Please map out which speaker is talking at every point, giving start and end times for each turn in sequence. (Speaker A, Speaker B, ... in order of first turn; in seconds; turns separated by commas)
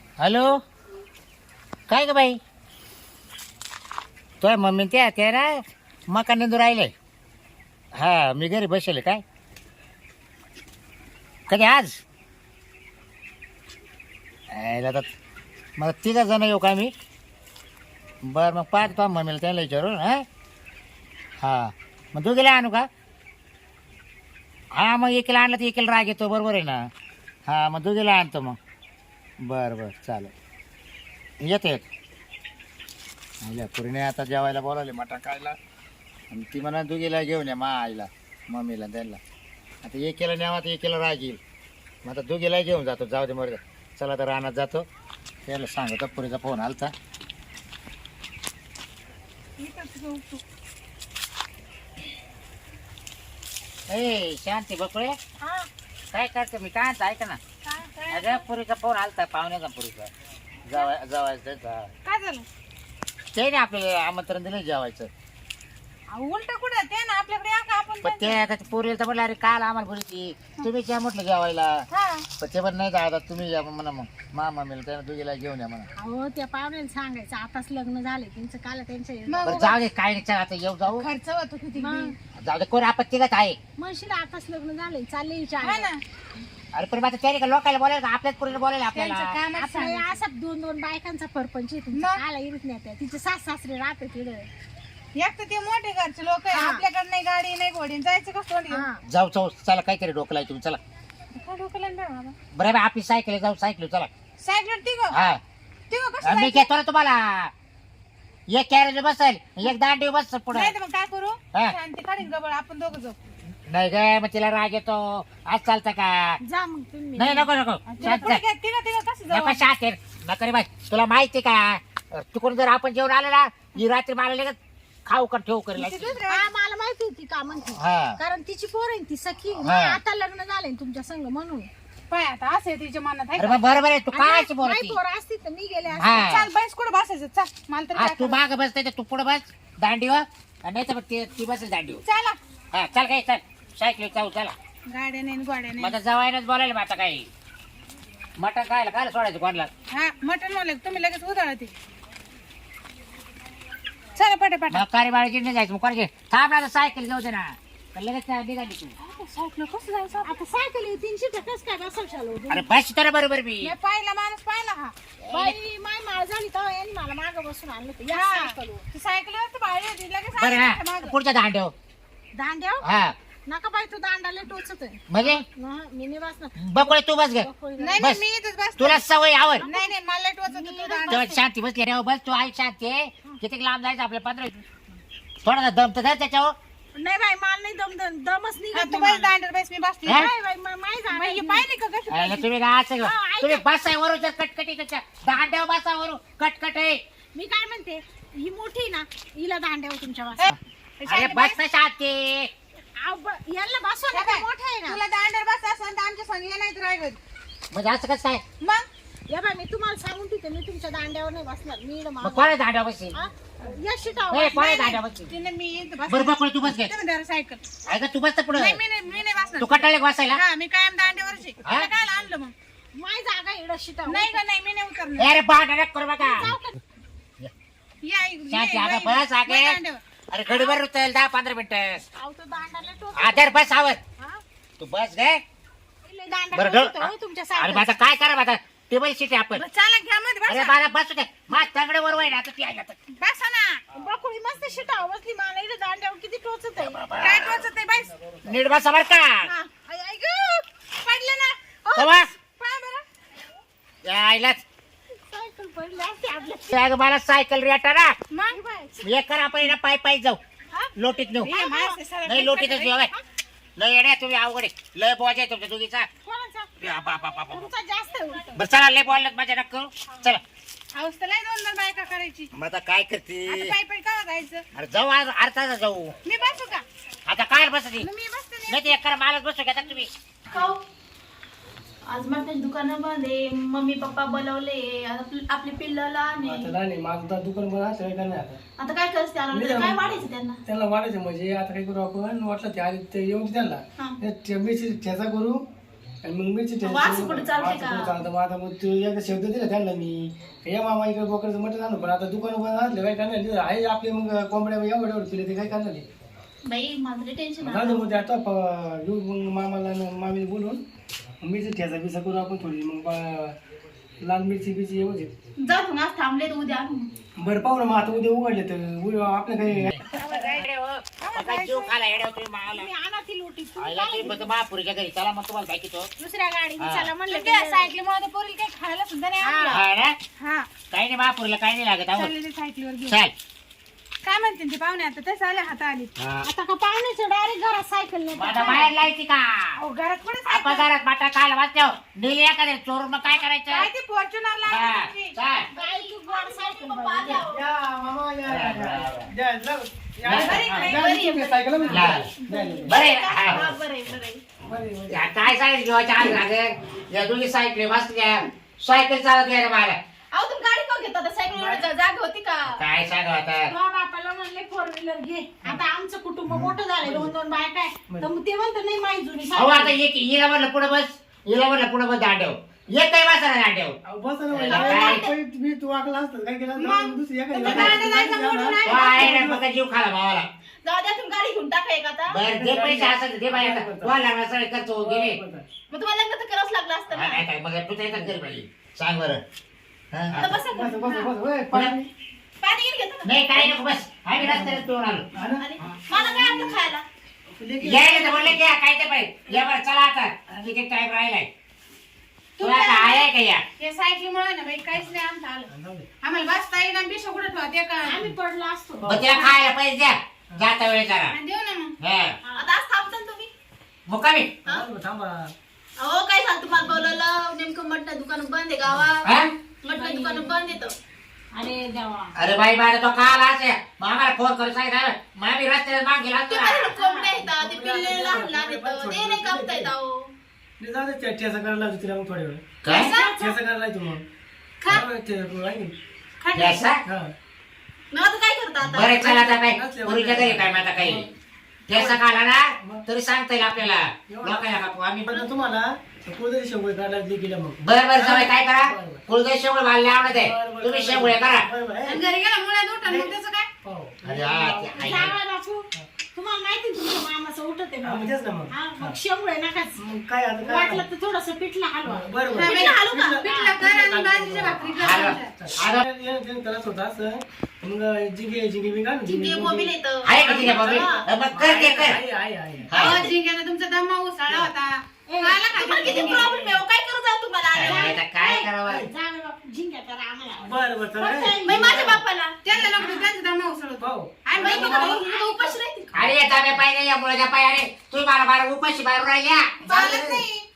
Speaker A: 0.2-0.6, Speaker A: 1.9-2.4, Speaker A: 4.4-6.9, Speaker A: 8.0-9.2, Speaker A: 11.5-12.0, Speaker A: 14.5-15.1, Speaker A: 15.8-16.9, Speaker A: 18.2-20.2, Speaker A: 21.4-22.9, Speaker A: 24.7-26.8, Speaker A: 27.5-28.6, Speaker A: 29.4-30.3, Speaker A: 31.4-31.8, Speaker A: 33.4-35.6, Speaker A: 36.3-39.2, Speaker A: 39.8-41.4, Speaker A: 42.0-44.9, Speaker A: 45.5-46.9, Speaker B: 49.6-50.4, Speaker A: 53.9-55.2, Speaker C: 55.4-55.7, Speaker A: 56.1-57.4, Speaker B: 57.6-58.4, Speaker A: 58.1-60.1, Speaker A: 60.7-61.9, Speaker B: 62.0-62.4, Speaker A: 63.3-65.1, Speaker B: 66.1-68.4, Speaker A: 68.0-71.8, Speaker B: 71.9-72.2, Speaker A: 72.4-75.9, Speaker C: 76.0-79.8, Speaker B: 79.3-79.7, Speaker A: 79.4-81.0, Speaker B: 80.9-82.1, Speaker C: 81.8-82.1, Speaker A: 82.3-83.6, Speaker C: 83.8-85.9, Speaker B: 85.6-86.0, Speaker A: 86.7-89.4, Speaker B: 88.9-90.2, Speaker C: 89.5-94.5, Speaker B: 91.9-92.2, Speaker B: 95.2-98.8, Speaker C: 96.5-96.8, Speaker C: 98.7-99.0, Speaker A: 99.0-100.8, Speaker B: 101.3-102.3, Speaker A: 102.5-104.1, Speaker B: 104.4-105.2, Speaker A: 105.1-105.4, Speaker B: 105.9-106.7, Speaker A: 106.2-107.5, Speaker A: 108.5-110.7, Speaker B: 110.5-113.2, Speaker A: 113.7-116.4, Speaker C: 116.4-118.3, Speaker A: 117.2-118.4, Speaker B: 118.0-119.6, Speaker A: 119.3-126.2, Speaker B: 125.8-126.4, Speaker C: 126.3-131.7, Speaker A: 127.8-128.2, Speaker A: 129.6-130.0, Speaker B: 132.1-133.6, Speaker A: 133.4-135.0, Speaker C: 134.1-136.3, Speaker A: 135.9-136.5, Speaker B: 136.2-138.4, Speaker A: 137.9-142.0, Speaker B: 142.1-142.4, Speaker A: 142.7-144.5, Speaker B: 144.9-145.9, Speaker A: 145.8-147.3, Speaker A: 148.4-149.7, Speaker B: 149.9-151.7, Speaker B: 154.2-154.8, Speaker A: 154.7-158.9, Speaker B: 159.0-160.3, Speaker C: 160.2-162.7, Speaker A: 162.5-163.7, Speaker B: 163.6-164.9, Speaker A: 165.2-165.6, Speaker C: 165.3-168.8, Speaker B: 168.1-171.2, Speaker A: 170.4-171.7, Speaker C: 172.3-172.8, Speaker A: 172.8-173.1, Speaker C: 173.4-178.1, Speaker A: 175.1-175.4, Speaker A: 176.6-177.5, Speaker B: 177.8-179.0, Speaker A: 178.8-179.7, Speaker B: 179.6-181.2, Speaker C: 179.6-179.9, Speaker C: 180.5-181.4, Speaker A: 181.1-184.5, Speaker A: 185.4-186.5, Speaker C: 186.9-189.3, Speaker B: 188.7-190.3, Speaker C: 190.1-191.6, Speaker B: 191.1-192.4, Speaker A: 192.1-197.0, Speaker C: 193.0-193.6, Speaker C: 197.3-200.5, Speaker B: 200.4-201.6, Speaker A: 201.1-202.5, Speaker C: 203.0-205.0, Speaker B: 204.1-207.2, Speaker A: 207.7-208.4, Speaker B: 208.6-208.8, Speaker C: 209.3-212.5, Speaker A: 212.2-213.1, Speaker C: 213.1-214.8, Speaker A: 214.3-215.3, Speaker B: 214.5-217.6, Speaker A: 216.1-216.9, Speaker A: 217.9-218.8, Speaker B: 218.5-222.5, Speaker A: 219.6-220.4, Speaker A: 221.6-221.9, Speaker C: 222.9-224.4, Speaker B: 224.1-225.3, Speaker A: 225.2-226.5, Speaker C: 226.2-226.8, Speaker B: 228.0-230.8, Speaker A: 228.5-229.8, Speaker A: 230.3-232.0, Speaker C: 232.2-233.6, Speaker A: 233.2-234.0, Speaker A: 234.8-235.4, Speaker C: 236.0-237.9, Speaker A: 236.5-239.6, Speaker B: 239.6-240.7, Speaker A: 240.5-243.0, Speaker B: 243.2-243.8, Speaker C: 243.9-247.0, Speaker A: 246.8-247.6, Speaker B: 247.2-248.1, Speaker A: 248.4-249.5, Speaker B: 249.4-253.0, Speaker A: 251.9-252.3, Speaker A: 254.0-254.6, Speaker C: 255.2-256.7, Speaker A: 256.7-258.1, Speaker B: 258.3-258.6, Speaker C: 258.5-259.1, Speaker A: 259.0-260.4, Speaker A: 260.9-261.5, Speaker B: 261.4-263.0, Speaker C: 261.4-262.0, Speaker A: 262.2-263.1, Speaker A: 263.8-266.1, Speaker C: 266.2-268.6, Speaker A: 266.8-267.7, Speaker A: 268.5-270.4, Speaker B: 270.9-272.5, Speaker A: 272.6-273.8, Speaker B: 273.5-274.6, Speaker A: 274.7-276.1, Speaker B: 276.2-276.8, Speaker A: 277.2-278.1, Speaker B: 278.0-278.9, Speaker A: 278.7-280.1, Speaker D: 280.5-280.8, Speaker D: 282.1-286.7, Speaker E: 286.4-288.6, Speaker D: 288.8-290.6, Speaker E: 289.5-290.0, Speaker E: 290.6-295.6, Speaker E: 296.2-306.0, Speaker D: 296.8-298.2, Speaker D: 306.6-308.0, Speaker E: 307.6-310.8, Speaker E: 311.4-313.6, Speaker E: 314.2-315.3, Speaker D: 315.6-317.1, Speaker E: 317.4-320.0, Speaker B: 320.1-320.6, Speaker A: 320.6-322.9, Speaker B: 321.2-321.9, Speaker C: 322.7-324.4, Speaker A: 323.8-326.1, Speaker C: 326.2-327.9, Speaker A: 326.8-327.1, Speaker B: 327.3-329.8, Speaker C: 329.4-329.8, Speaker A: 329.7-330.2, Speaker B: 330.4-330.7, Speaker A: 330.9-332.3, Speaker B: 332.1-333.2, Speaker A: 333.1-333.3, Speaker B: 334.2-336.1, Speaker A: 336.2-336.5, Speaker C: 336.4-338.9, Speaker A: 338.3-339.8, Speaker B: 339.8-340.9, Speaker A: 340.4-343.9, Speaker B: 343.7-345.3, Speaker A: 344.6-345.7, Speaker C: 345.7-347.4, Speaker D: 345.7-347.6, Speaker E: 347.5-352.9, Speaker A: 348.4-349.3, Speaker A: 350.2-350.7, Speaker D: 350.3-351.8, Speaker B: 350.4-351.1, Speaker B: 351.8-352.1, Speaker A: 351.9-352.3, Speaker D: 352.3-354.4, Speaker A: 352.9-353.7, Speaker E: 354.6-355.2, Speaker A: 355.1-360.0, Speaker D: 360.3-362.8, Speaker E: 361.5-361.9, Speaker A: 362.6-363.7, Speaker C: 363.7-369.9, Speaker A: 366.5-366.8, Speaker E: 367.0-367.3, Speaker A: 369.5-374.0, Speaker E: 374.0-379.6, Speaker A: 374.5-375.2, Speaker D: 374.6-375.3, Speaker B: 376.7-379.3, Speaker A: 377.6-378.1, Speaker A: 378.8-380.5, Speaker D: 380.8-382.4, Speaker A: 382.3-385.4, Speaker E: 382.5-384.1, Speaker E: 385.0-385.7, Speaker D: 385.9-387.4, Speaker A: 387.1-389.4, Speaker A: 390.1-390.5, Speaker D: 390.3-391.1, Speaker E: 390.4-392.1, Speaker D: 392.6-393.3, Speaker A: 393.2-395.2, Speaker E: 393.5-396.5, Speaker D: 395.6-397.0, Speaker E: 397.5-398.6, Speaker A: 397.8-401.5, Speaker B: 402.6-405.7, Speaker A: 402.6-403.6, Speaker E: 405.7-406.1, Speaker B: 406.2-408.3, Speaker C: 408.0-409.1, Speaker A: 409.1-411.4, Speaker B: 409.3-409.5, Speaker B: 411.3-411.9, Speaker A: 412.0-412.4, Speaker C: 412.4-412.7, Speaker D: 412.5-413.5, Speaker A: 414.1-414.6, Speaker E: 414.7-415.5, Speaker D: 416.0-419.2, Speaker A: 419.2-419.5, Speaker D: 419.8-420.9, Speaker C: 419.9-420.6, Speaker C: 421.5-422.4, Speaker A: 422.4-426.9, Speaker D: 426.5-430.3, Speaker C: 426.9-427.4, Speaker E: 427.4-429.9, Speaker E: 430.8-432.6, Speaker A: 432.8-433.1, Speaker C: 432.9-433.6, Speaker B: 432.9-433.3, Speaker E: 433.2-434.2, Speaker B: 434.8-435.1, Speaker E: 434.9-435.9, Speaker B: 436.4-436.8, Speaker A: 436.5-437.0, Speaker E: 437.0-437.3, Speaker D: 438.1-439.3, Speaker A: 438.8-441.3, Speaker E: 439.2-441.3, Speaker A: 441.9-445.3, Speaker E: 441.9-442.2, Speaker E: 442.8-443.0, Speaker E: 444.3-449.2, Speaker A: 447.8-451.6, Speaker E: 450.2-452.2, Speaker B: 452.0-453.7, Speaker E: 453.0-455.3, Speaker A: 454.2-455.3, Speaker C: 454.9-460.0, Speaker E: 458.0-459.2, Speaker E: 460.0-461.0, Speaker C: 460.6-463.7, Speaker E: 462.0-469.9, Speaker B: 462.5-465.5, Speaker A: 465.0-466.0, Speaker D: 469.2-471.2, Speaker A: 470.2-472.2, Speaker E: 470.4-473.3, Speaker A: 472.9-473.3, Speaker B: 472.9-476.4, Speaker C: 475.3-476.8, Speaker D: 475.8-478.2, Speaker A: 477.7-479.1, Speaker C: 477.8-482.1, Speaker E: 480.6-482.2, Speaker D: 481.6-482.6, Speaker B: 482.6-485.5, Speaker C: 482.8-483.3, Speaker E: 484.0-485.2, Speaker C: 484.6-485.7, Speaker D: 484.6-486.3, Speaker A: 486.1-489.7, Speaker B: 489.8-490.6, Speaker E: 489.9-490.4, Speaker D: 489.9-490.3